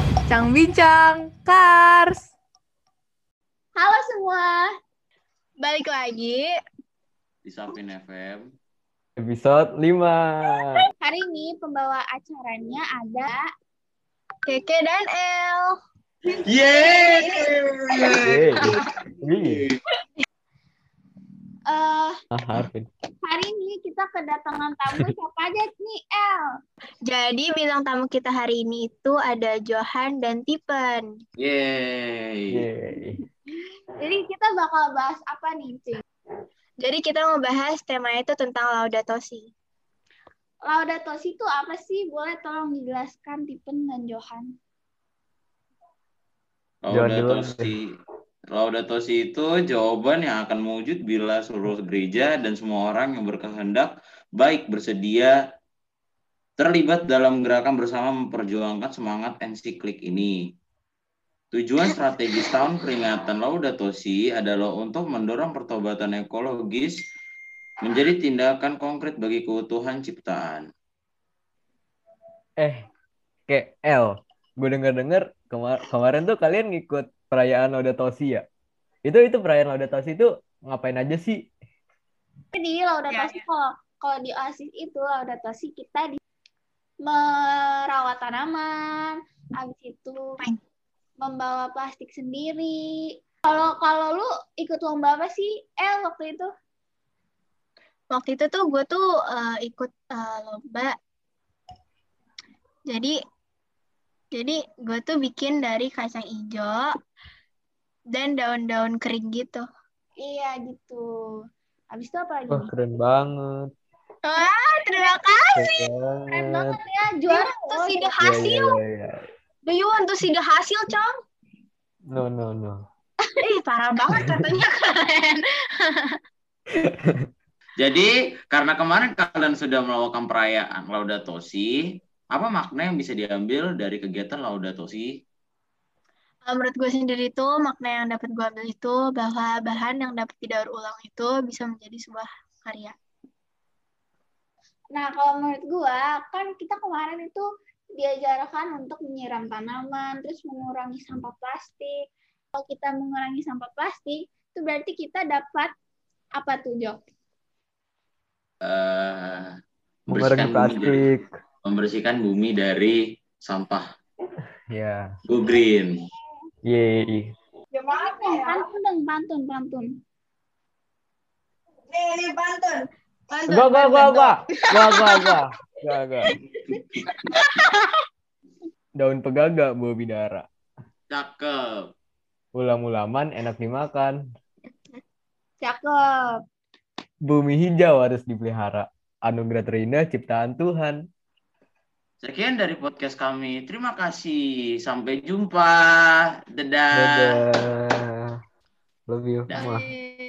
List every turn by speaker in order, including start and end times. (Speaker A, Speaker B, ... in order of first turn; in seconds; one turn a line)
Speaker A: 0.3-2.3
Speaker B: 3.8-4.6
Speaker C: 5.6-6.5
Speaker D: 7.4-8.5
Speaker E: 9.2-10.9
Speaker B: 11.0-13.4
Speaker C: 14.4-15.8
Speaker D: 16.3-18.8
Speaker E: 18.2-18.7
Speaker E: 19.2-19.6
Speaker B: 21.7-22.1
Speaker E: 22.3-22.9
Speaker B: 23.2-26.5
Speaker C: 27.1-31.2
Speaker D: 31.4-32.6
Speaker E: 32.5-33.2
Speaker B: 34.0-36.0
Speaker C: 36.8-39.5
Speaker B: 40.7-44.5
Speaker D: 46.8-47.9
Speaker E: 46.9-47.7
Speaker D: 48.5-55.3
Speaker D: 56.6-60.4
Speaker D: 61.5-67.0
Speaker D: 67.8-70.7
Speaker E: 72.6-72.8
Speaker E: 73.5-78.5
Speaker E: 79.0-81.5
Speaker B: 82.5-86.2
Speaker C: 83.1-83.4
Speaker B: 87.0-90.2
Speaker B: 91.2-96.5
Speaker C: 98.1-101.0
Speaker C: 102.9-103.2
Speaker C: 104.3-106.9
Speaker C: 108.1-109.7
Speaker B: 110.2-111.1
Speaker B: 111.9-112.7
Speaker E: 112.5-113.7
Speaker C: 114.2-115.9
Speaker E: 115.6-116.8
Speaker B: 116.3-118.1
Speaker C: 117.3-118.8
Speaker E: 118.2-119.2
Speaker C: 119.7-121.1
Speaker E: 122.1-122.8
Speaker C: 123.4-125.4
Speaker E: 126.8-127.3
Speaker D: 127.8-131.8
Speaker D: 132.3-135.1
Speaker C: 136.5-142.9
Speaker B: 144.9-147.5
Speaker B: 148.0-152.0
Speaker B: 152.5-155.7
Speaker B: 156.4-157.0
Speaker D: 158.6-159.5
Speaker D: 160.1-161.0
Speaker E: 160.1-161.3
Speaker D: 161.6-163.9
Speaker E: 164.7-165.1
Speaker D: 165.3-165.9
Speaker E: 166.7-167.3
Speaker B: 167.9-169.9
Speaker C: 172.0-172.7
Speaker C: 173.4-174.0
Speaker E: 173.4-176.3
Speaker E: 179.0-180.5
Speaker D: 181.1-181.9
Speaker E: 182.5-184.2
Speaker B: 185.6-186.4
Speaker E: 187.2-191.0
Speaker D: 192.2-197.4
Speaker E: 196.9-198.4
Speaker E: 199.1-199.9
Speaker D: 199.5-199.8